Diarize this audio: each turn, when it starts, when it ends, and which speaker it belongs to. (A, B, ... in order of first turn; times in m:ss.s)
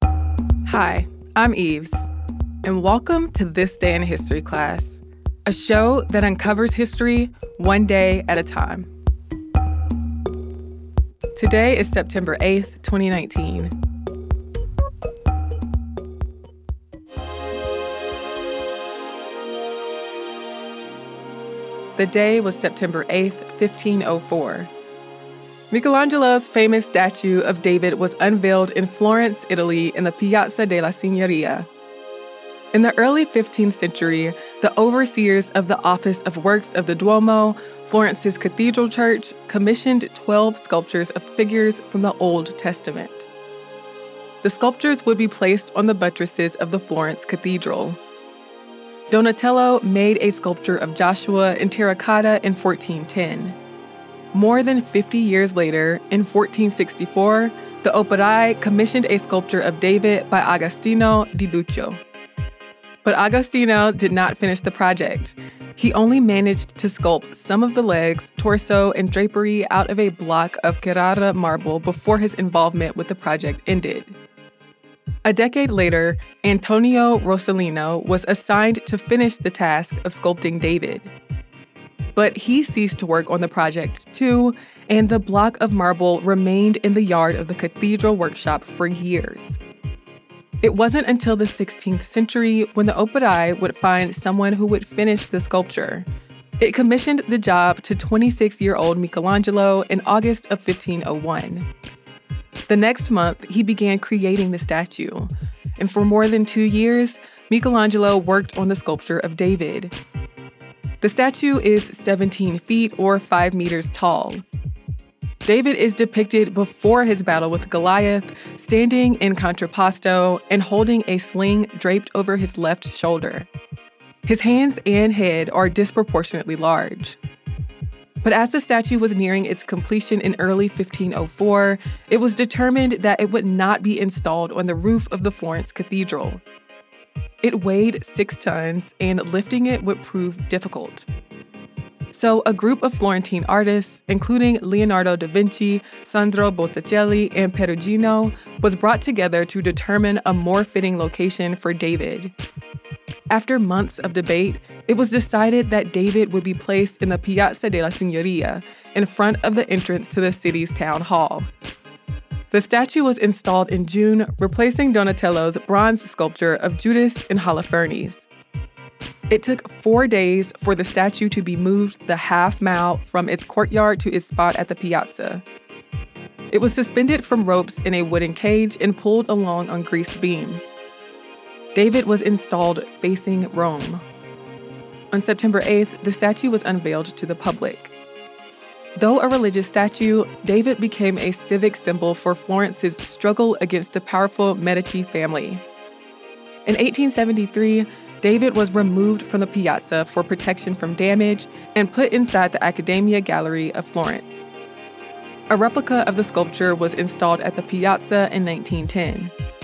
0:00.6-0:02.1 A
0:02.6-0:08.9 A
0:11.3-0:13.7 A
0:21.9-0:24.7 A
0:25.7-0:31.7 A
0:32.7-0:43.3 A
0:44.4-0:48.0 A
0:49.1-0:53.6 A
0:54.3-1:02.0 A
1:03.0-1:14.2 A
1:15.2-1:21.1 A
1:22.1-1:29.6 A
1:30.6-1:36.1 A
1:36.6-1:41.7 A
1:42.7-1:49.9 A
1:51.0-1:54.4 A
1:55.4-2:03.5 A
2:04.2-2:07.2 A
2:08.2-2:16.4 A
2:17.4-2:21.0 A
2:22.1-2:32.3 A
2:33.3-2:41.5 A
2:42.5-2:48.3 A
2:49.3-2:55.4 A
2:56.5-3:00.8 A
3:01.7-3:04.0 A
3:05.1-3:07.9 A
3:09.0-3:15.6 A
3:16.6-3:24.5 A
3:25.5-3:29.3 A